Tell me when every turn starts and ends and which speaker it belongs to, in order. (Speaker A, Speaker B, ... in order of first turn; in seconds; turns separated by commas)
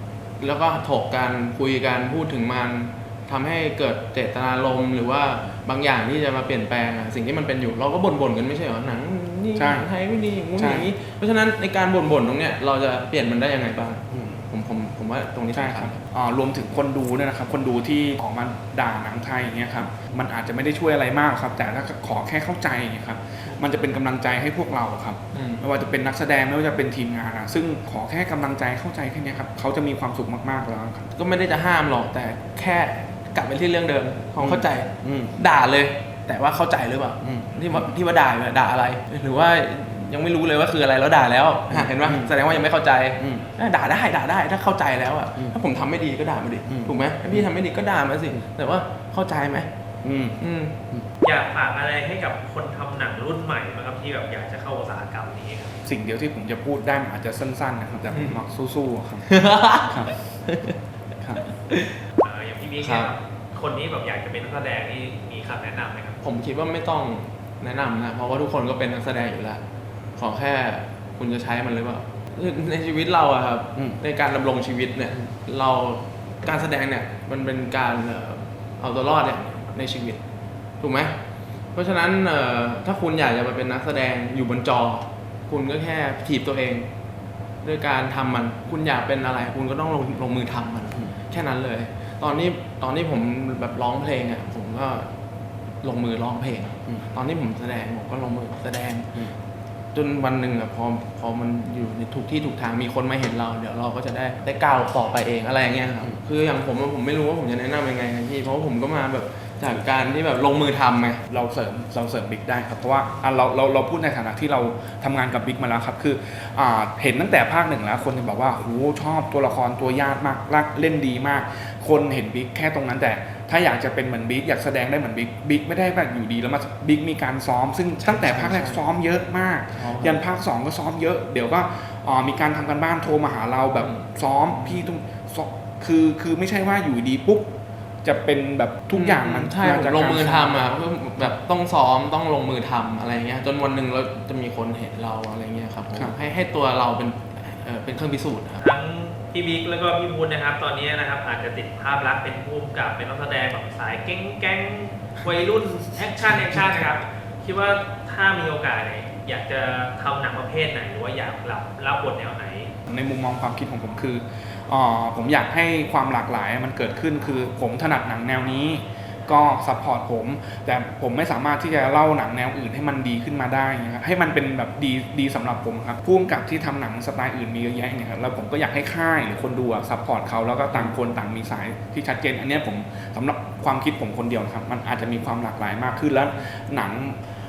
Speaker A: 0.4-16.0, Speaker B: 9.6-9.9, Speaker B: 10.6-10.9, Speaker B: 14.1-14.4, Speaker B: 15.5-31.1, Speaker A: 25.3-25.6, Speaker A: 31.1-49.7, Speaker B: 34.4-35.3, Speaker B: 37.2-37.5, Speaker B: 41.7-42.4, Speaker B: 43.2-43.5, Speaker B: 50.0-50.4, Speaker A: 50.4-50.8, Speaker C: 51.2-55.8, Speaker B: 55.9-59.3, Speaker A: 58.1-58.4, Speaker A: 59.3-60.8, Speaker B: 59.9-60.2, Speaker A: 61.4-62.0, Speaker C: 62.2-66.2, Speaker A: 62.8-63.1, Speaker A: 66.2-69.6, Speaker A: 70.2-80.2, Speaker A: 80.8-81.2, Speaker A: 81.7-86.9, Speaker A: 87.6-95.1, Speaker A: 95.8-99.2, Speaker A: 99.9-111.2, Speaker B: 111.3-140.6, Speaker A: 128.0-128.8, Speaker A: 129.8-130.2, Speaker A: 134.6-134.8, Speaker A: 138.9-148.6, Speaker C: 148.6-162.8, Speaker B: 162.9-187.2